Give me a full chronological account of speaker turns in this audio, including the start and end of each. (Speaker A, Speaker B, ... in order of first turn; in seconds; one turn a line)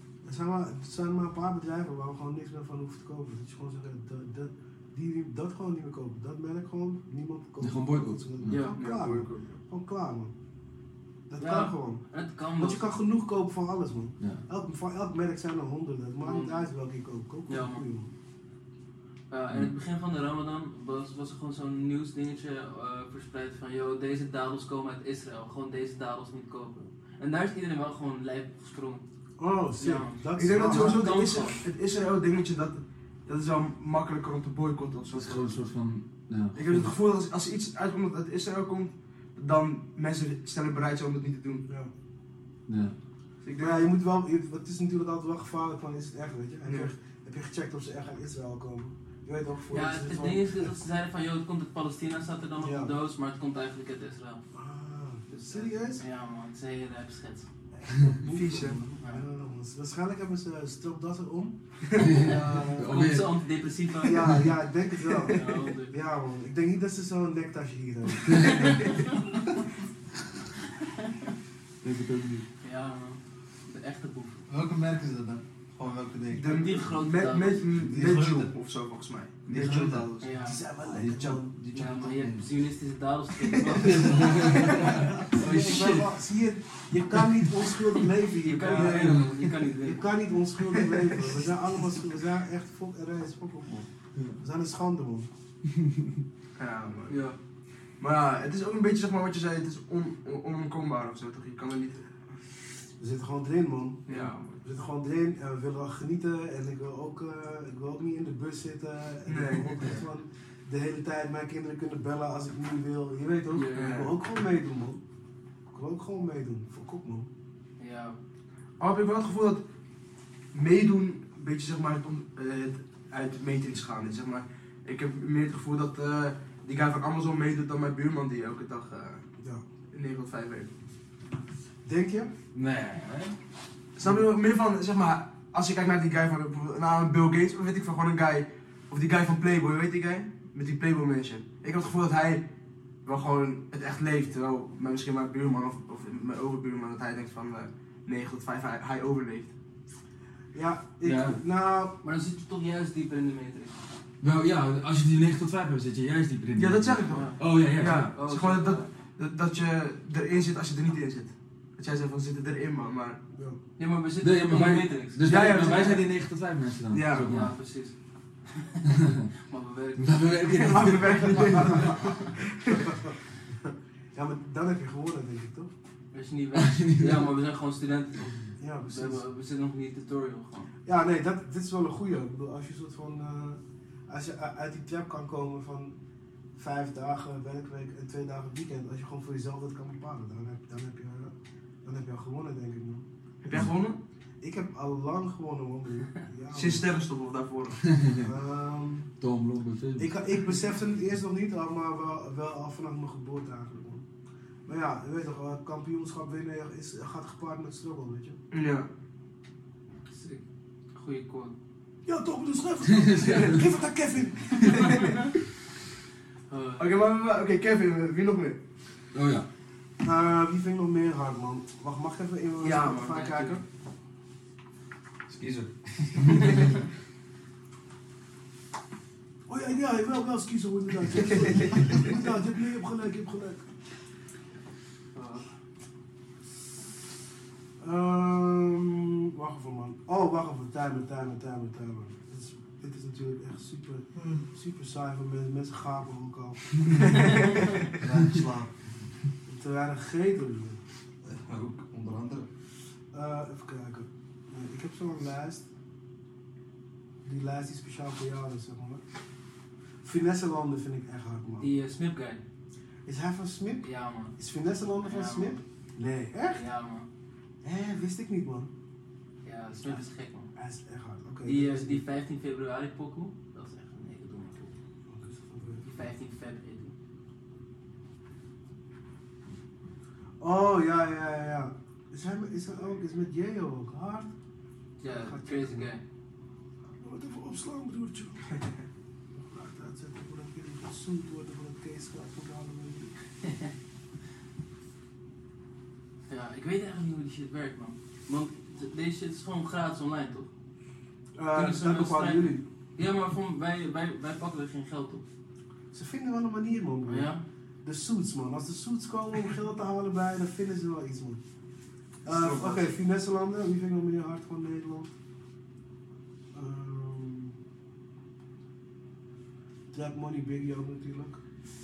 Speaker A: 0.2-10.3
Speaker B: 7.6-8.6
Speaker C: 8.5-8.8
Speaker D: 8.7-9.6
Speaker A: 11.3-12.0
Speaker C: 11.4-12.9
Speaker A: 12.6-18.1
Speaker B: 14.2-14.4
Speaker C: 16.2-16.7
Speaker C: 17.5-17.8
Speaker C: 19.3-29.0
Speaker A: 29.4-31.1
Speaker C: 29.8-31.7
Speaker D: 30.4-35.7
Speaker B: 35.1-36.9
Speaker D: 36.5-41.7
Speaker B: 42.7-43.0
Speaker D: 43.4-43.9
Speaker A: 43.6-50.7
Speaker D: 46.6-46.9
Speaker C: 49.7-54.4
Speaker A: 52.6-52.9
Speaker A: 54.5-56.0
Speaker C: 55.3-57.5
Speaker A: 57.8-61.6
Speaker D: 58.3-58.8
Speaker D: 61.9-62.3
Speaker C: 62.0-64.3
Speaker B: 62.0-63.4
Speaker A: 62.2-63.1
Speaker A: 64.0-68.6
Speaker C: 65.3-66.0
Speaker B: 68.3-68.8
Speaker C: 68.4-69.2
Speaker C: 70.8-71.3
Speaker B: 71.8-72.5
Speaker C: 72.6-74.5
Speaker E: 74.5-76.7
Speaker D: 76.3-80.2
Speaker C: 76.5-77.7
Speaker E: 77.7-78.5
Speaker E: 79.5-82.5
Speaker C: 80.2-80.6
Speaker A: 80.4-81.5
Speaker C: 81.7-86.1
Speaker B: 84.4-84.8
Speaker A: 85.4-93.9
Speaker C: 88.4-90.1
Speaker D: 90.7-91.0
Speaker A: 94.4-95.3
Speaker D: 96.6-97.2
Speaker C: 97.1-97.4
Speaker D: 98.0-102.1
Speaker A: 103.0-115.0
Speaker D: 104.1-104.6
Speaker D: 109.3-109.9
Speaker C: 113.5-113.9
Speaker D: 113.8-114.1
Speaker A: 115.7-117.3
Speaker C: 117.8-118.2
Speaker D: 118.8-119.6
Speaker D: 120.5-129.2
Speaker D: 129.9-130.7
Speaker A: 131.8-132.3
Speaker B: 132.6-133.3
Speaker D: 134.0-142.5
Speaker D: 143.1-149.5
Speaker A: 150.5-151.9
Speaker B: 151.0-151.4
Speaker C: 152.0-153.8
Speaker B: 154.2-158.1
Speaker D: 156.6-163.2
Speaker C: 157.1-157.4
Speaker C: 158.1-158.9
Speaker C: 163.8-166.0
Speaker B: 164.2-167.6
Speaker D: 164.5-166.1
Speaker D: 166.9-167.3
Speaker C: 167.3-167.9
Speaker C: 168.5-168.8
Speaker C: 169.5-172.3
Speaker B: 170.0-171.8
Speaker D: 170.7-172.9
Speaker A: 172.7-175.7
Speaker C: 176.1-180.7
Speaker B: 176.5-177.3
Speaker A: 178.6-179.2
Speaker A: 180.8-186.0
Speaker A: 186.6-193.0
Speaker D: 193.4-194.0
Speaker A: 194.4-196.9
Speaker D: 196.5-197.8
Speaker B: 198.0-198.2
Speaker A: 198.2-199.1
Speaker B: 199.2-200.2
Speaker A: 200.0-204.1
Speaker A: 204.7-208.4
Speaker D: 208.5-208.9
Speaker C: 210.1-210.4
Speaker C: 210.9-211.6
Speaker A: 212.1-215.1
Speaker B: 213.0-213.6
Speaker D: 214.6-215.2
Speaker C: 214.8-215.2
Speaker C: 216.5-216.9
Speaker D: 216.8-218.6
Speaker B: 219.1-219.5
Speaker A: 220.0-223.6
Speaker D: 222.6-223.3
Speaker C: 223.0-223.6
Speaker E: 225.3-226.5
Speaker A: 229.5-233.7
Speaker D: 231.4-232.0
Speaker C: 235.2-235.5
Speaker A: 237.8-247.3
Speaker E: 244.2-244.4
Speaker D: 247.0-247.5
Speaker E: 247.9-249.1
Speaker A: 249.5-250.8
Speaker E: 251.2-252.5
Speaker A: 253.1-255.7
Speaker A: 257.2-259.0
Speaker A: 260.0-261.7
Speaker C: 261.6-262.4
Speaker A: 263.1-266.6
Speaker C: 263.8-264.4
Speaker C: 265.0-265.6
Speaker C: 266.5-267.1
Speaker A: 267.6-268.7
Speaker C: 269.4-270.5
Speaker A: 270.6-272.0
Speaker C: 271.4-274.8
Speaker A: 275.1-275.9
Speaker C: 275.8-276.9
Speaker A: 280.4-284.3
Speaker C: 285.0-286.0
Speaker A: 285.0-285.9
Speaker A: 287.0-288.6
Speaker A: 289.4-293.1
Speaker C: 293.4-293.7
Speaker C: 296.3-300.5
Speaker A: 301.4-302.6
Speaker C: 301.5-305.2
Speaker A: 305.9-307.3
Speaker C: 307.1-307.4
Speaker A: 307.8-311.4
Speaker A: 312.2-315.1
Speaker D: 312.3-312.9
Speaker A: 316.5-317.6
Speaker A: 319.9-321.4